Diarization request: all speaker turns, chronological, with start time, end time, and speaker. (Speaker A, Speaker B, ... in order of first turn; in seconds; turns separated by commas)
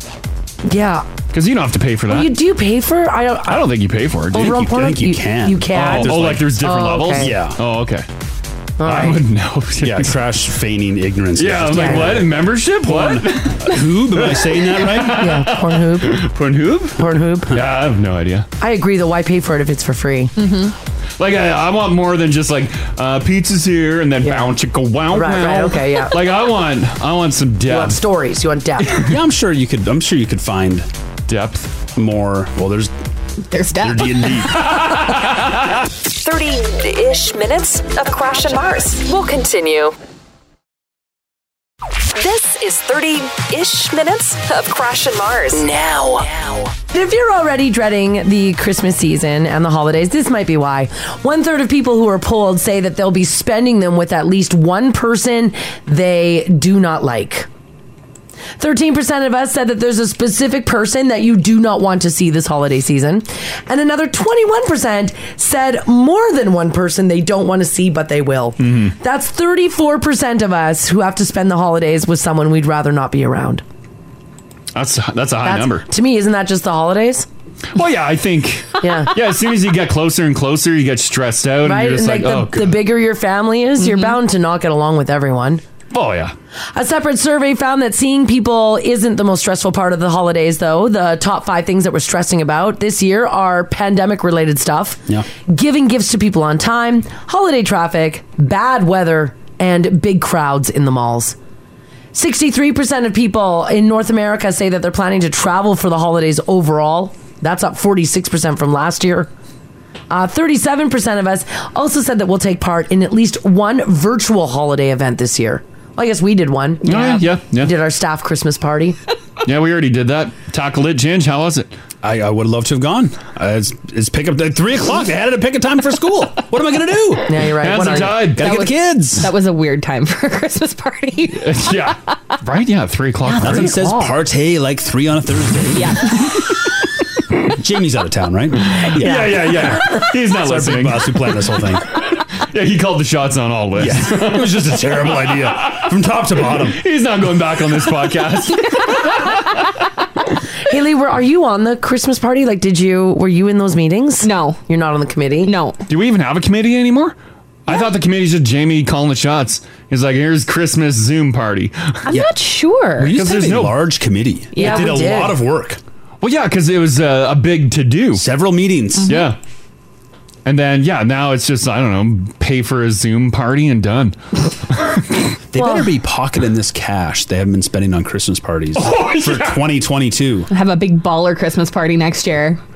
Speaker A: 0.7-1.1, Speaker B: 1.3-2.3, Speaker A: 2.1-3.6, Speaker B: 3.5-4.6, Speaker C: 4.3-6.5, Speaker A: 4.3-7.3, Speaker B: 5.7-8.1, Speaker C: 7.2-7.6, Speaker A: 8.8-9.2, Speaker B: 8.8-10.2, Speaker C: 9.8-15.3, Speaker B: 11.4-17.0, Speaker A: 11.7-12.2, Speaker A: 15.2-16.2, Speaker A: 17.0-17.5, Speaker B: 17.5-18.5, Speaker A: 18.6-20.3, Speaker D: 20.4-20.7, Speaker B: 21.2-28.0, Speaker A: 24.2-24.5, Speaker A: 25.1-26.2, Speaker A: 27.7-29.0, Speaker B: 28.8-29.2, Speaker C: 29.1-30.9, Speaker B: 31.3-31.7, Speaker C: 32.0-32.9, Speaker D: 33.5-34.4, Speaker C: 33.8-34.9, Speaker B: 34.5-35.8, Speaker E: 36.1-40.0, Speaker E: 42.1-45.7, Speaker A: 45.5-57.5, Speaker A: 58.6-73.6, Speaker B: 68.6-69.0, Speaker B: 74.8-75.8, Speaker A: 75.4-77.3, Speaker B: 77.8-82.8, Speaker A: 78.8-79.1, Speaker A: 81.6-85.6, Speaker D: 83.8-84.1, Speaker B: 85.9-86.3, Speaker A: 86.7-101.4, Speaker A: 102.1-109.3, Speaker A: 110.1-119.0, Speaker B: 116.8-117.7, Speaker B: 119.4-121.7, Speaker C: 122.0-127.5, Speaker A: 127.3-128.3, Speaker B: 127.6-128.5, Speaker C: 128.4-129.3, Speaker D: 128.4-131.6, Speaker B: 131.3-133.8, Speaker A: 133.3-134.2, Speaker C: 133.4-136.2, Speaker D: 135.7-136.6, Speaker C: 137.6-141.9, Speaker B: 138.8-141.4, Speaker A: 139.0-139.3, Speaker B: 142.1-145.9, Speaker C: 143.8-146.8, Speaker B: 146.5-149.6, Speaker A: 150.7-155.5, Speaker D: 154.2-154.6, Speaker D: 155.4-155.8, Speaker B: 155.9-162.1, Speaker D: 162.1-163.1, Speaker C: 163.0-165.8, Speaker B: 163.1-163.8, Speaker D: 164.5-165.0, Speaker A: 164.6-165.4, Speaker B: 166.2-168.2, Speaker C: 168.1-169.2, Speaker D: 169.0-169.3, Speaker B: 169.1-169.4, Speaker B: 170.4-174.2, Speaker B: 174.7-175.3, Speaker C: 175.5-180.5, Speaker A: 175.6-175.9, Speaker B: 178.8-179.6, Speaker D: 180.5-182.6